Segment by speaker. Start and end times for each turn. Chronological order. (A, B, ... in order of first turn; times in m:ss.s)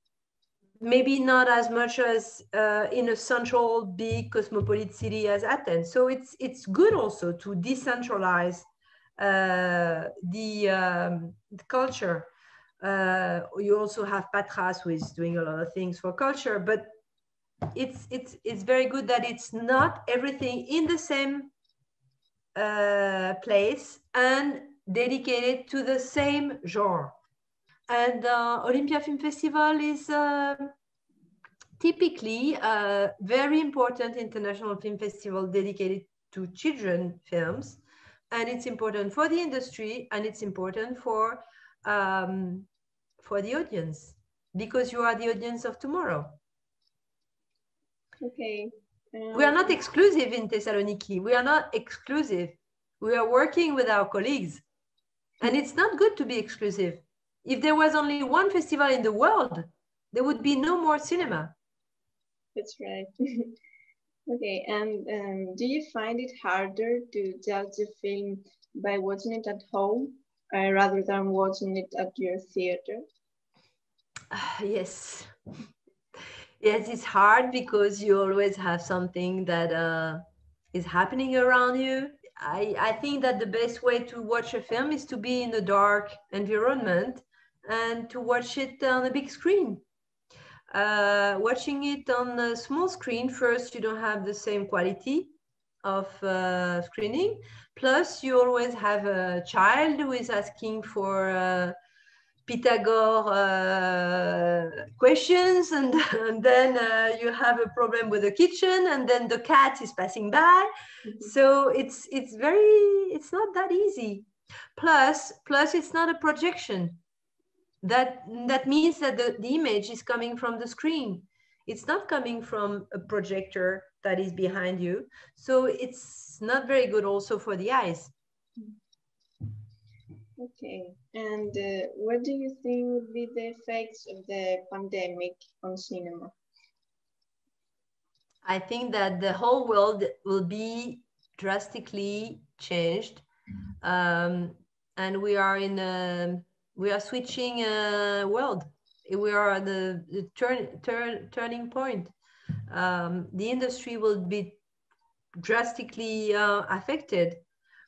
0:00.8-0:12.3 A
0:12.8-0:16.9 A
0:17.7-0:21.5 A
0:22.5-0:27.1 A
0:27.9-0:30.7 A
0:31.8-0:42.7 A
0:43.2-0:46.4 A
0:48.2-0:49.7 B
0:49.3-0:54.6 A
0:55.4-1:01.5 A
1:02.5-1:03.5 B
1:04.3-1:13.0 B
1:14.3-1:15.3 A
1:16.6-1:20.2 A
1:20.7-1:29.8 A
1:30.7-1:35.3 A
1:35.8-1:41.7 A
1:42.5-1:57.0 A
1:57.8-2:08.1 A
2:10.4-2:16.3 B
2:18.4-2:23.3 A
2:23.8-2:32.1 A
2:32.7-2:34.6 A
2:35.4-2:37.4 A